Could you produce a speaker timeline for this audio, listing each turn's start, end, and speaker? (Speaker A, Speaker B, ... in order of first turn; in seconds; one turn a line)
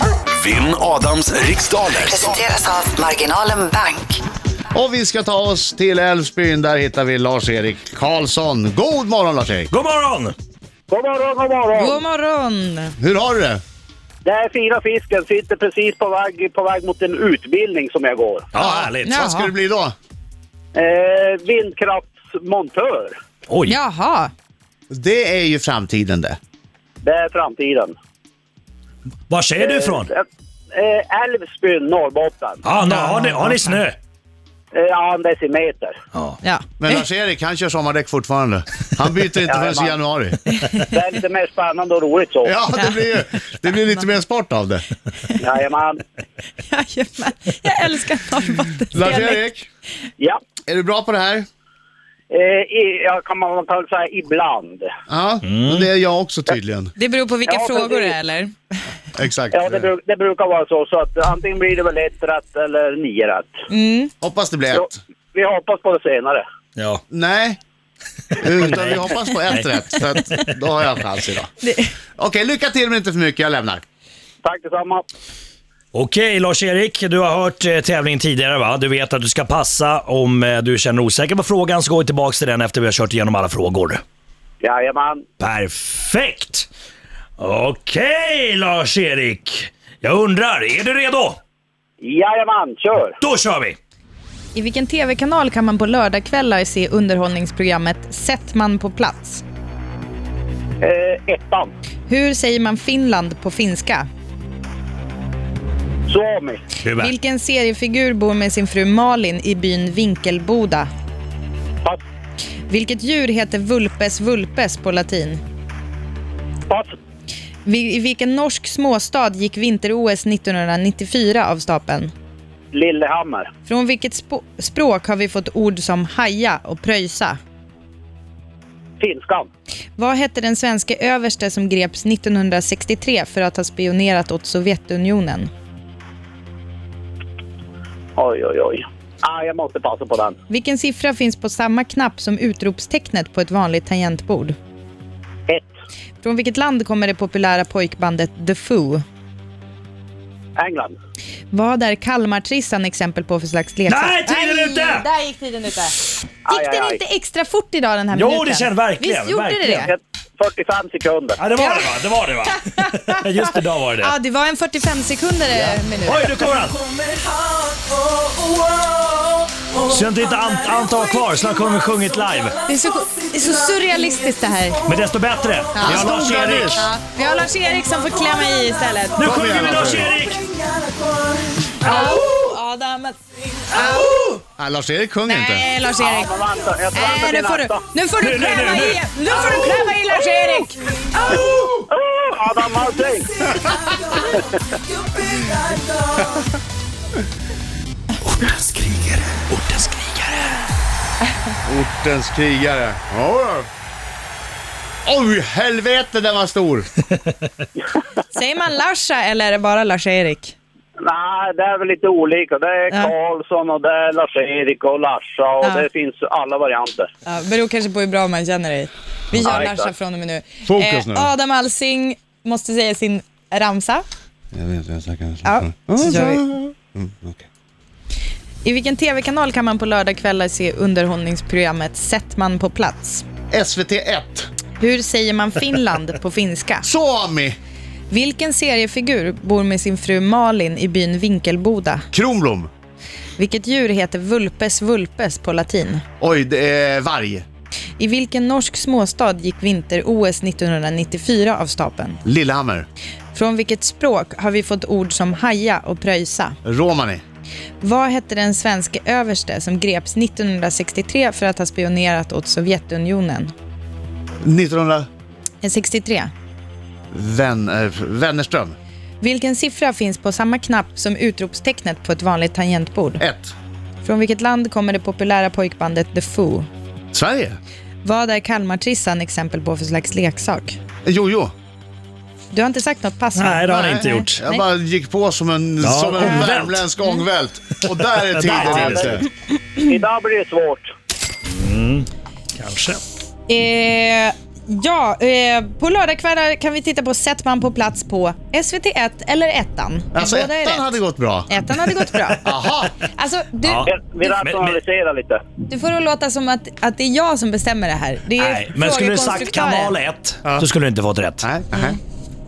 Speaker A: 0.3-2.5
Speaker B: 2.0-4.2
Speaker C: 4.7-9.7
Speaker D: 9.7-10.3
Speaker E: 10.9-12.0
Speaker F: 11.8-12.9
Speaker C: 13.0-13.6
Speaker E: 14.2-18.5
Speaker D: 18.5-19.1
Speaker C: 18.6-19.9
Speaker F: 19.0-19.5
Speaker E: 20.8-23.2
Speaker D: 23.5-23.8
Speaker F: 23.7-24.3
Speaker C: 24.9-26.4
Speaker E: 27.0-27.9
Speaker D: 29.3-30.1
Speaker E: 29.6-32.6
Speaker D: 32.6-34.0
Speaker F: 32.8-33.8
Speaker E: 34.7-35.9
Speaker F: 36.4-37.0
Speaker C: 36.8-40.4
Speaker E: 39.5-40.0
Speaker F: 40.5-40.8
Speaker E: 40.9-42.5
Speaker C: 42.5-44.9
Speaker F: 42.7-43.2
Speaker E: 45.4-46.0
Speaker F: 46.6-49.5
Speaker C: 48.9-49.7
Speaker C: 50.7-51.5
Speaker E: 52.3-54.9
Speaker C: 55.1-56.9
Speaker D: 55.4-55.9
Speaker F: 57.0-58.5
Speaker E: 57.5-58.1
Speaker C: 59.1-59.8
Speaker E: 59.5-63.6
Speaker F: 63.7-64.1
Speaker C: 64.2-65.0
Speaker E: 64.7-66.4
Speaker D: 66.8-67.0
Speaker C: 67.1-67.6
Speaker C: 68.4-71.5
Speaker D: 68.7-70.5
Speaker F: 71.6-71.9
Speaker C: 72.2-73.8
Speaker E: 74.4-75.0
Speaker D: 75.9-84.0
Speaker E: 84.6-85.2
Speaker D: 85.4-86.7
Speaker D: 87.4-91.4
Speaker E: 92.0-93.2
Speaker D: 93.2-93.8
Speaker F: 94.5-99.4
Speaker E: 100.8-101.7
Speaker F: 102.1-104.1
Speaker E: 106.1-106.6
Speaker D: 106.8-107.1
Speaker F: 107.0-110.9
Speaker F: 112.7-115.4
Speaker F: 117.7-122.1
Speaker E: 122.7-123.5
Speaker F: 123.7-127.4
Speaker E: 129.0-129.5
Speaker F: 130.0-135.5
Speaker E: 138.2-140.4
Speaker F: 140.5-144.6
Speaker F: 146.2-149.0
Speaker E: 150.6-151.0
Speaker F: 151.5-159.9
Speaker D: 153.9-155.1
Speaker E: 156.5-157.0
Speaker D: 158.1-159.9
Speaker E: 159.7-161.4
Speaker D: 161.4-164.1
Speaker F: 161.6-161.9
Speaker F: 162.5-163.2
Speaker F: 164.0-166.4
Speaker D: 165.5-166.9
Speaker D: 169.8-172.6
Speaker F: 172.7-174.8
Speaker D: 174.9-176.9
Speaker F: 175.8-176.1
Speaker C: 175.8-176.9
Speaker F: 176.7-179.4
Speaker D: 179.2-180.4
Speaker C: 179.2-180.1
Speaker F: 181.8-184.3
Speaker D: 181.8-182.2
Speaker D: 183.8-184.3
Speaker C: 184.6-185.7
Speaker F: 185.3-186.3
Speaker E: 186.0-187.8
Speaker F: 186.9-191.4
Speaker D: 188.2-189.1
Speaker E: 191.3-193.4
Speaker E: 194.3-194.6
Speaker A: 198.3-199.5
Speaker D: 199.6-200.3
Speaker C: 201.7-203.7
Speaker C: 205.1-206.9
Speaker F: 208.3-210.6
Speaker E: 211.0-217.1
Speaker F: 217.2-224.1
Speaker E: 219.3-219.9
Speaker C: 220.7-221.3
Speaker C: 224.5-227.5
Speaker F: 225.4-226.4
Speaker F: 228.6-233.3
Speaker C: 233.5-234.5
Speaker F: 234.8-236.9
Speaker C: 236.8-237.6
Speaker F: 238.1-242.1
Speaker C: 242.1-242.7
Speaker F: 243.4-246.0
Speaker C: 246.2-247.5
Speaker F: 248.0-252.2
Speaker C: 252.2-252.9
Speaker F: 253.3-256.6
Speaker C: 256.6-257.2
Speaker F: 257.8-263.5
Speaker C: 264.4-265.1
Speaker F: 265.6-266.3
Speaker C: 267.1-268.8
Speaker F: 269.2-273.2
Speaker C: 273.2-273.5
Speaker F: 274.0-276.7
Speaker C: 277.1-277.6
Speaker F: 278.0-280.8
Speaker C: 281.1-281.5
Speaker F: 282.5-284.6
Speaker D: 283.4-284.4
Speaker C: 284.4-289.3
Speaker D: 285.8-286.9
Speaker D: 288.3-289.2
Speaker E: 288.6-289.1
Speaker E: 289.8-290.9
Speaker D: 291.5-293.0
Speaker F: 293.5-300.9
Speaker C: 300.1-301.5
Speaker F: 301.5-302.5
Speaker C: 302.4-302.9
Speaker F: 303.0-303.9
Speaker D: 303.6-304.8
Speaker E: 303.8-305.4
Speaker F: 305.7-309.9
Speaker D: 308.4-311.4
Speaker C: 311.4-312.0